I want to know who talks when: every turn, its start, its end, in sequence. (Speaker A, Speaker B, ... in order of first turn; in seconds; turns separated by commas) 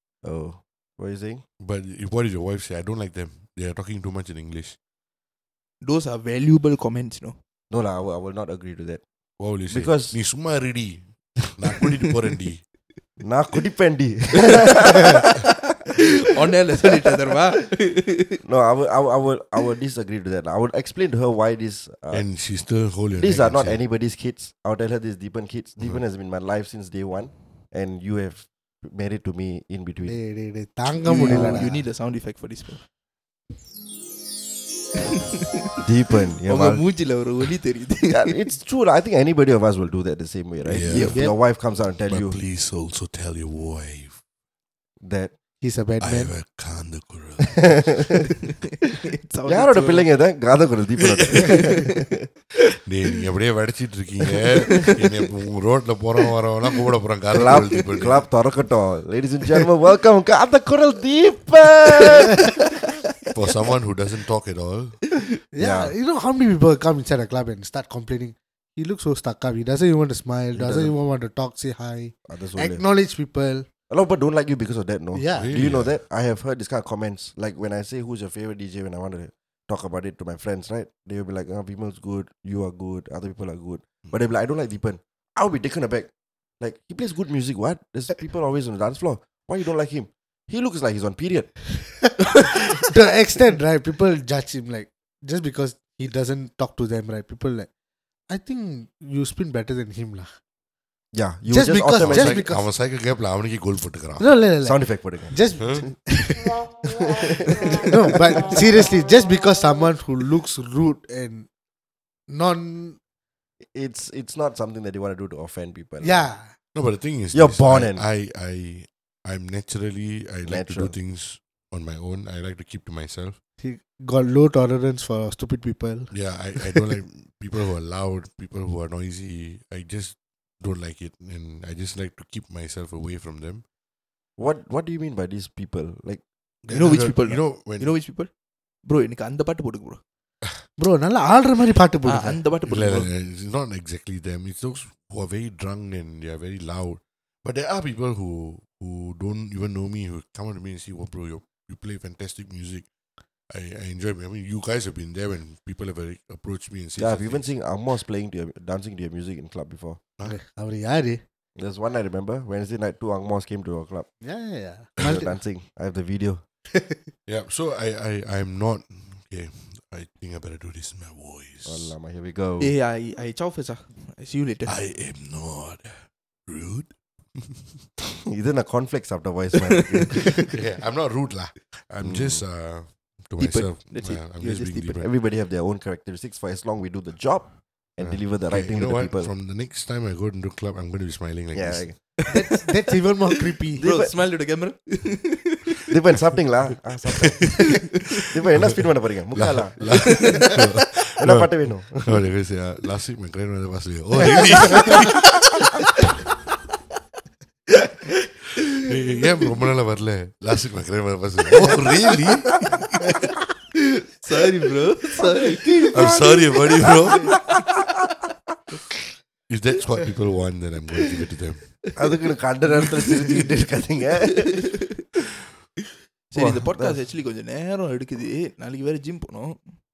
Speaker A: 0.2-1.4, Speaker B: 1.6-4.8, Speaker C: 5.8-7.4, Speaker A: 7.7-9.0, Speaker B: 9.4-12.6, Speaker A: 9.7-10.2, Speaker A: 13.2-15.3, Speaker C: 14.9-15.4, Speaker C: 15.9-18.4, Speaker A: 18.4-22.2, Speaker B: 22.1-23.8, Speaker A: 23.2-30.2, Speaker D: 30.1-31.8, Speaker C: 31.0-32.8, Speaker A: 31.2-31.7, Speaker C: 35.1-35.7, Speaker A: 35.8-36.8, Speaker C: 36.5-38.4, Speaker A: 38.1-42.4, Speaker B: 40.6-41.2, Speaker C: 40.9-41.2, Speaker D: 41.1-41.3, Speaker B: 42.1-44.2, Speaker A: 45.0-45.3, Speaker D: 45.6-46.3, Speaker B: 46.0-48.2, Speaker C: 48.9-50.1, Speaker A: 49.5-52.2, Speaker B: 51.1-51.4, Speaker C: 51.3-51.9, Speaker B: 52.8-58.2, Speaker C: 54.6-54.9, Speaker A: 57.3-62.5, Speaker C: 57.4-57.8, Speaker B: 63.3-65.0, Speaker D: 65.5-73.7, Speaker A: 65.6-65.9, Speaker A: 70.5-70.9, Speaker A: 72.2-72.8, Speaker A: 73.9-91.6, Speaker D: 75.1-75.5, Speaker B: 75.3-76.0, Speaker D: 92.9-97.7, Speaker D: 98.3-100.3, Speaker A: 101.1-102.4, Speaker D: 101.5-102.7, Speaker B: 102.0-104.3, Speaker D: 104.2-106.6, Speaker A: 104.6-105.9, Speaker B: 105.6-105.9, Speaker A: 106.8-108.6, Speaker D: 107.8-111.5, Speaker D: 112.3-113.0, Speaker A: 113.6-116.2, Speaker D: 116.0-116.5, Speaker B: 116.7-123.4, Speaker A: 117.3-118.0, Speaker A: 120.4-120.9, Speaker D: 123.6-126.9, Speaker B: 126.1-133.6, Speaker A: 134.4-136.2, Speaker B: 136.7-137.9, Speaker C: 136.7-138.3, Speaker C: 138.8-140.0, Speaker D: 140.8-142.4, Speaker C: 142.0-143.1, Speaker B: 142.7-152.9, Speaker B: 153.5-157.4, Speaker A: 157.0-160.0, Speaker D: 160.2-161.2, Speaker A: 161.6-164.1, Speaker D: 164.2-165.3, Speaker A: 165.0-166.4, Speaker D: 166.7-167.0, Speaker B: 167.2-171.9, Speaker A: 171.6-172.7, Speaker C: 172.6-174.8, Speaker B: 174.7-177.8, Speaker A: 178.3-180.5, Speaker C: 179.6-180.5, Speaker B: 180.4-185.1, Speaker A: 182.0-182.4, Speaker C: 183.4-185.0, Speaker A: 185.0-189.3, Speaker B: 188.0-191.9, Speaker A: 191.5-192.2, Speaker C: 192.2-192.6, Speaker D: 192.3-193.9, Speaker C: 193.7-195.9, Speaker A: 193.8-194.1, Speaker A: 195.9-197.7, Speaker A: 198.3-200.4, Speaker B: 198.5-205.6, Speaker C: 200.1-200.6, Speaker A: 201.2-202.3, Speaker C: 204.2-205.1, Speaker B: 208.6-212.8, Speaker C: 212.5-212.8, Speaker C: 214.0-217.6, Speaker D: 215.6-215.9, Speaker B: 215.9-217.3, Speaker B: 219.5-221.7, Speaker A: 221.9-224.7, Speaker C: 226.3-229.8, Speaker A: 226.3-227.0